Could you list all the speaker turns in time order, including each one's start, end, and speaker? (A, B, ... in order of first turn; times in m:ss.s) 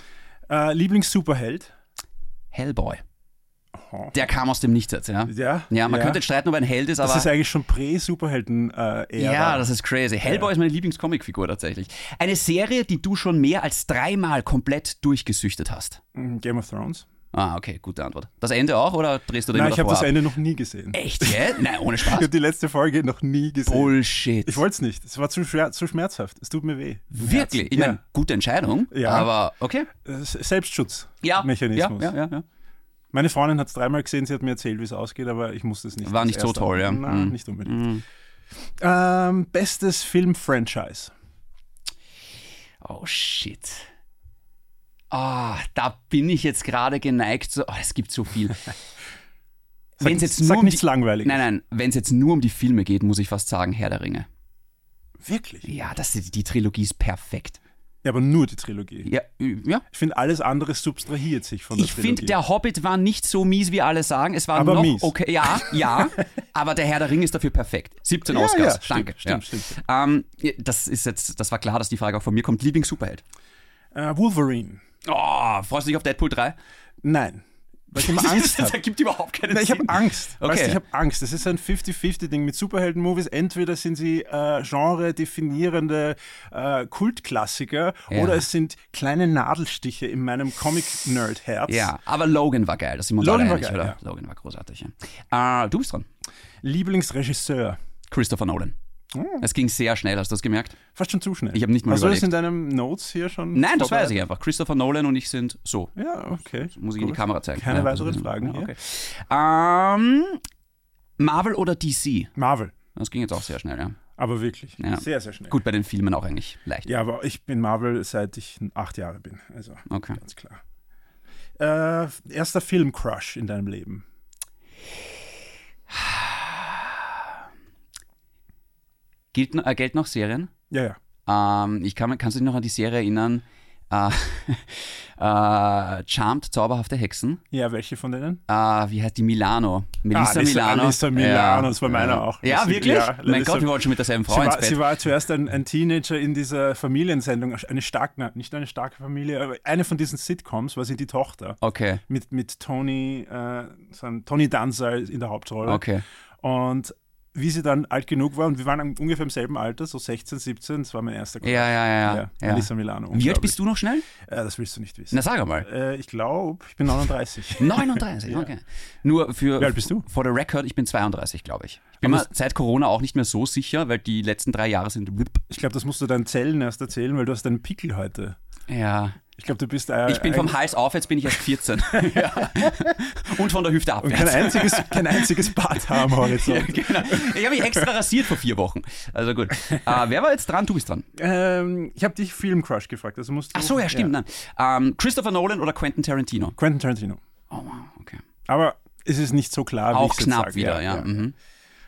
0:00.5-0:01.7 A
0:02.5-0:03.0 B
0:03.7-0:04.2 A
0:04.1-0:07.3 B
0:05.3-0:06.2 A
0:07.0-0:09.7 A
0:09.2-0:16.0 B
0:10.2-0:10.5 A
0:16.1-0:17.0 A
0:17.3-0:20.2 B
0:19.5-0:28.0 A
0:20.9-0:22.3 B
0:23.6-0:24.6 B
0:27.1-0:29.9 B
0:28.9-0:29.3 A
0:30.0-0:32.1 A
0:31.2-0:32.4 B
0:33.1-0:37.9 A
0:36.0-0:38.0 B
0:38.8-0:41.1 A
0:42.8-0:43.9 B
0:45.1-0:48.7 B
0:50.0-0:51.4 A
0:50.0-0:54.3 B
0:55.2-0:55.7 A
0:55.6-0:57.6 B
0:58.0-0:59.1 A
0:59.0-0:59.8 B
0:59.9-1:02.3 A
1:01.7-1:13.2 B
1:04.5-1:06.1 A
1:08.2-1:09.8 A
1:13.9-1:14.8 A
1:15.0-1:16.6 B
1:17.0-1:18.8 A
1:18.0-1:20.8 B
1:19.5-1:31.9 A
1:28.1-1:28.4 B
1:31.7-1:36.1 B
1:33.2-1:34.0 A
1:36.6-1:37.8 A
1:38.1-1:38.7 B
1:39.1-1:39.4 A
1:39.4-1:40.8 B
1:40.9-1:44.2 A
1:41.5-1:42.3 B
1:43.5-1:45.9 B
1:46.0-1:48.7 A
1:46.7-1:50.4 B
1:51.2-1:52.3 B
1:52.4-1:52.7 A
1:52.9-1:54.0 B
1:54.2-1:55.6 A
1:54.8-1:56.9 B
1:56.8-2:00.6 A
1:59.9-2:00.2 B
2:01.6-2:04.0 A
2:05.9-2:07.0 B
2:09.3-2:10.5 B
2:10.7-2:11.0 A
2:11.3-2:17.4 B
2:17.5-2:18.4 A
2:18.5-2:24.8 B
2:20.1-2:35.8 A
2:31.6-2:32.0 B
2:35.6-2:36.0 B
2:36.4-2:43.6 A
2:41.4-2:44.1 B
2:44.2-2:48.5 A
2:45.1-2:45.7 B
2:47.6-2:55.4 B
2:49.6-2:50.0 A
2:52.0-2:52.3 A
2:55.5-2:58.4 A
2:58.7-2:59.2 B
2:59.4-3:00.6 A
3:00.0-3:11.1 B
3:01.9-3:02.7 A
3:04.0-3:07.9 A
3:11.2-3:14.1 A
3:13.5-3:16.6 B
3:16.6-3:17.2 A
3:17.5-3:18.2 B
3:18.5-3:21.2 A
3:19.9-3:21.3 B